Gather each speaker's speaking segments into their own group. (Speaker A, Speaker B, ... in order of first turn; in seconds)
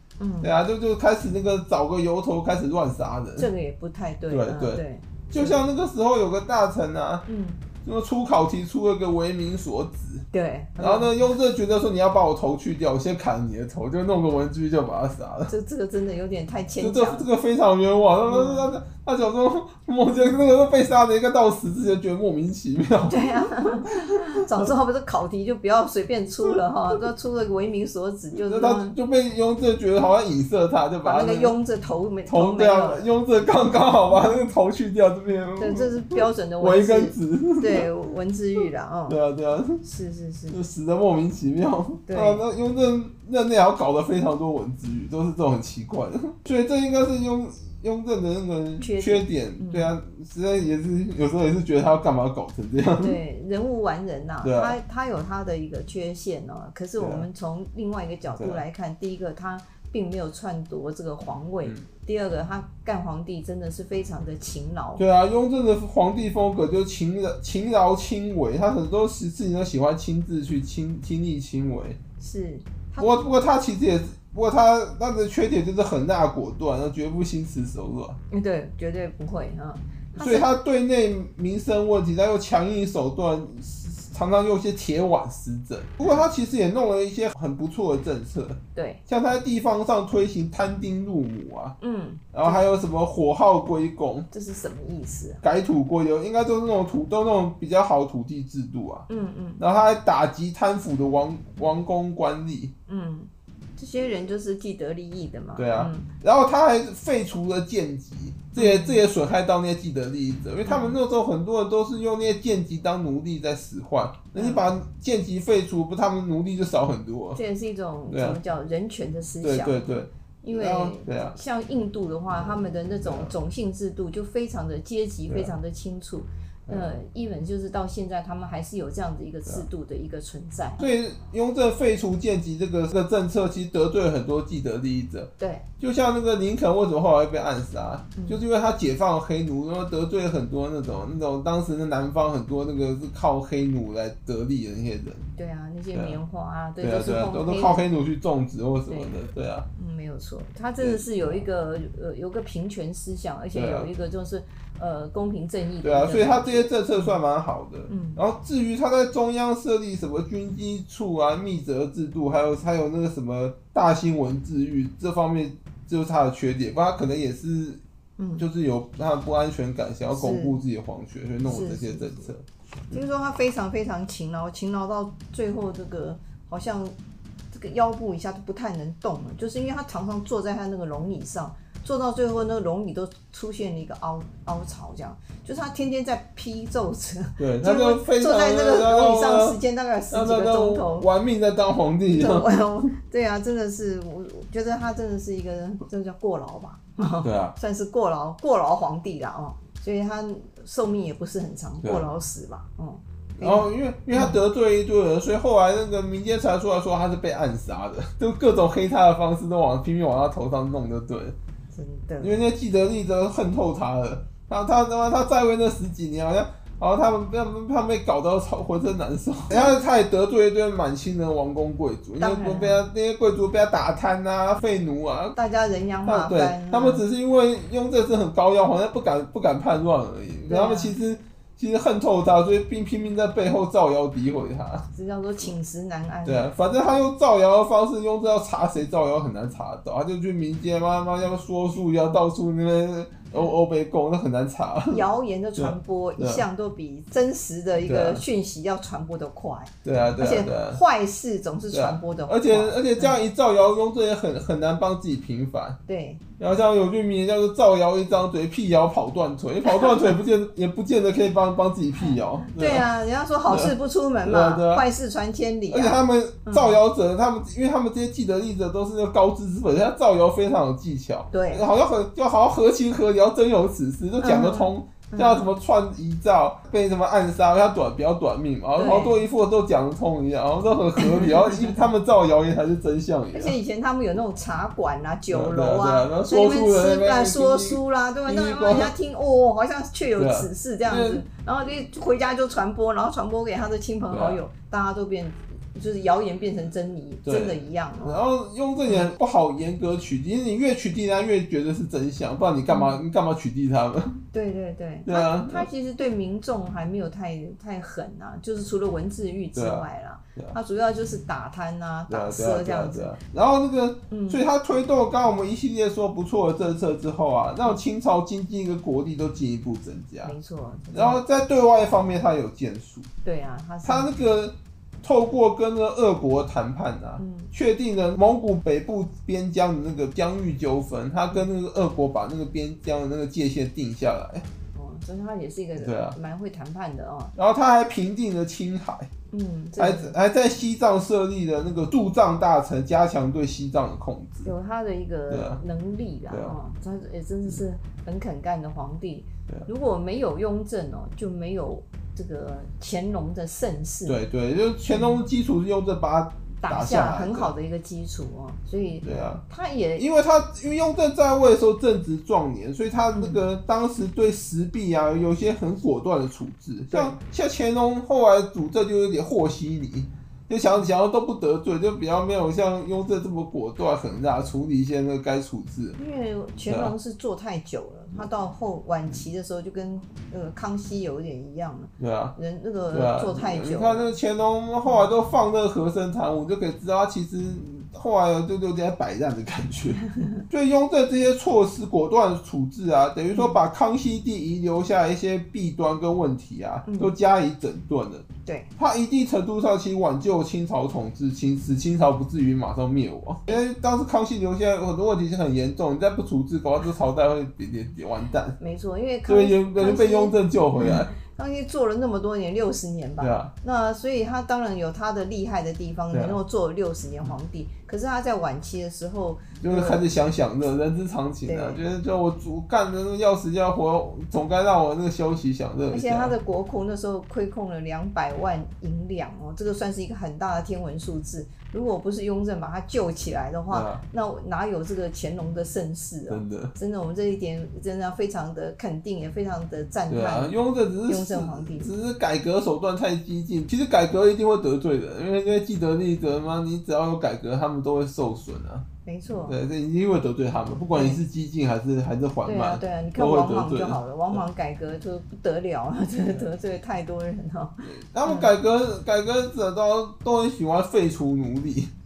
Speaker A: 0.2-0.5, 3.4-5.6, 7.3-7.6, 10.3-11.2, 15.5-17.3, 18.2-18.7, 23.1-28.9, 31.0-33.1, 35.6-39.2, 39.8-40.6, 42.1-42.4, 48.8-49.9, 53.0-65.0, 72.2-73.2, 78.3-80.5, 88.7-89.0, 91.8-92.6, 94.3-95.4, 99.1-99.6, 102.9-106.1, 108.5-109.0, 110.6-111.0, 114.3-114.7, 117.3-119.9, 120.4-130.8, 135.4-135.7, 138.2-138.4, 145.4-147.8, 148.9-149.1, 149.8-157.2, 157.9-158.2, 168.2-168.4, 170.1-170.6, 171.4-172.3, 172.9-176.9, 177.5-191.1, 192.1-204.4, 211.7-212.4, 219.5-219.8, 222.2-222.8, 225.3-227.0, 230.5-231.0, 234.9-236.5, 244.9-253.2, 255.9-256.2, 259.6-260.1, 262.0-266.8, 271.3-271.6, 274.2-275.5, 278.8-279.2, 281.0-281.8, 283.3-298.2, 298.8-299.1, 302.7-303.0, 304.3-313.1, 314.1-314.4, 320.2-321.2, 323.2-324.1, 327.2-327.5, 334.7-337.3, 339.3-340.2, 344.4-354.2, 354.9-355.2, 356.6-360.0, 363.1-363.4, 366.9-367.2, 376.0-384.2, 390.1-390.4, 393.3-393.6, 396.9-397.1, 398.4-398.7, 408.6-420.1, 421.4-421.8, 425.9-440.5, 441.1-441.9, 449.1-449.6, 450.9-451.2, 452.4-458.5
Speaker B: 0.4-3.5, 4.3-7.2, 7.8-10.3, 10.8-15.5, 16.8-24.7, 28.3-31.5, 32.3-37.9, 39.1-39.8, 40.5-53.2, 54.4-54.8, 57.0-57.2, 58.4-58.6, 65.0-72.0, 73.0-78.2, 80.1-91.8, 92.3-94.3, 95.4-99.1, 99.6-102.7, 105.5-117.4, 118.1-118.4, 119.4-121.3, 123.0-123.3, 125.3-125.5, 126.7-127.0, 130.8-145.2, 146.8-149.7, 150.8-151.4, 153.5-153.9, 155.8-167.8, 168.4-173.0, 187.4-189.6, 190.1-192.5, 197.2-197.5, 203.4-211.3, 212.2-225.4, 226.0-234.8, 236.2-245.0, 245.6-246.4, 247.8-248.2, 249.8-250.8, 251.7-255.8, 256.4-262.9, 263.5-264.8, 265.7-283.6, 285.3-288.9, 290.2-291.2, 294.1-294.4, 297.2-304.2, 305.1-305.7, 309.5-310.5, 312.1-320.3, 320.9-323.1, 323.8-334.5, 335.8-336.2, 337.4-339.1, 339.8-344.5, 345.3-345.6, 346.3-346.6, 354.1-357.5, 359.0-359.4, 360.0-376.0, 376.7-376.9, 382.0-382.3, 382.9-408.6, 409.3-411.1, 413.2-413.5, 416.1-416.4, 419.6-426.3, 433.7-434.0, 436.3-436.7, 440.1-448.9, 449.4-454.4, 457.8-461.9